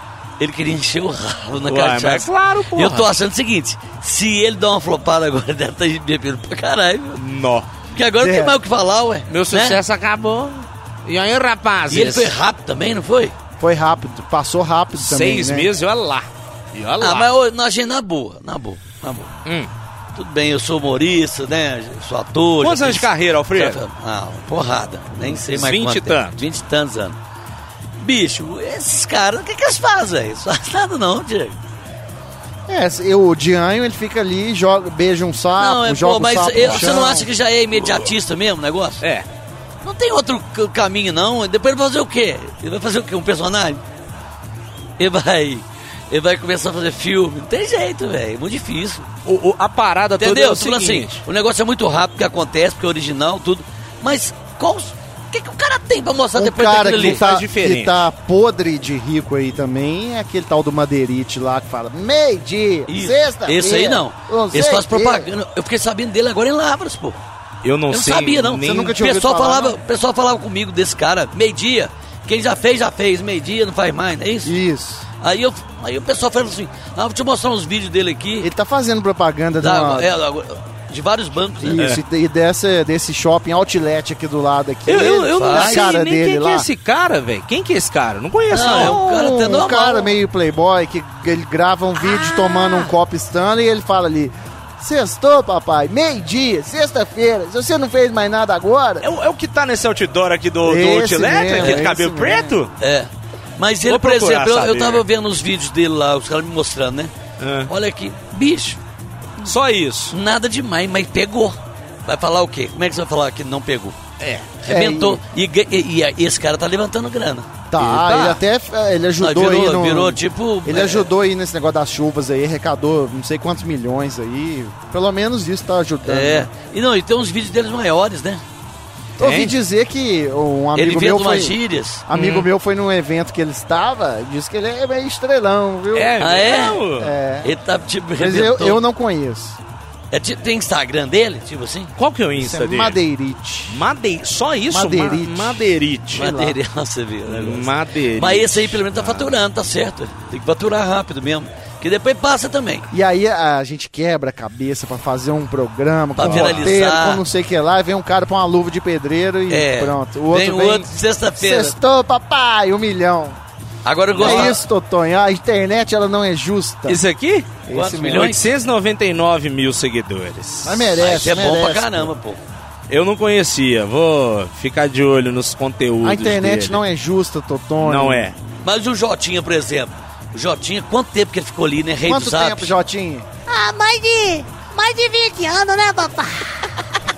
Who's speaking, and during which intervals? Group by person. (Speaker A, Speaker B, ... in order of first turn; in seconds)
Speaker A: 0.4-7.2, 7.9-9.8, 11.9-13.3, 17.0-19.3, 20.1-27.2, 28.0-31.6, 35.6-39.0, 39.8-43.8, 45.0-49.1, 50.2-57.2, 62.9-67.2, 67.9-74.6, 75.2-78.5, 79.6-81.8, 85.3-85.9, 88.5-90.2, 102.8-107.1, 107.7-108.8, 110.1-114.0, 114.6-117.5, 119.2-121.1, 126.0-128.4, 130.8-132.0, 136.2-136.8, 137.4-138.8, 140.1-141.9, 146.1-152.9, 156.2-157.2, 159.5-161.8, 163.8-164.6, 167.7-168.5, 171.0-172.4, 178.6-182.7
Speaker B: 1.6-3.1, 7.2-7.7, 9.3-12.3, 15.0-17.3, 19.4-19.7, 22.6-23.8, 25.3-26.4, 49.3-51.2, 56.9-58.0, 67.6-69.0, 81.8-82.0, 84.9-89.0, 92.0-92.9, 99.0-102.7, 103.9-105.0, 107.4-107.7, 109.4-110.2, 114.2-114.5, 117.8-118.4, 129.2-129.5, 132.1-132.5, 135.9-137.2, 142.0-143.0, 143.7-146.3, 147.3-149.4, 156.2-156.7, 164.2-164.6, 166.9-171.3, 172.9-176.8, 177.8-178.3
Speaker C: 8.2-8.6, 13.6-15.7, 32.7-37.3, 56.4-65.3, 68.6-69.8, 74.5-75.0, 78.4-80.1, 81.6-86.7, 88.5-99.1, 100.6-102.6, 114.7-115.2, 117.7-126.5, 129.2-136.3, 136.9-137.5, 138.2-139.6, 142.4-143.8, 144.7-146.6, 152.9-163.4, 164.2-167.0, 167.7-168.4, 170.6-172.1, 176.0-178.3, 182.1-183.3
Speaker D: 183.5-186.9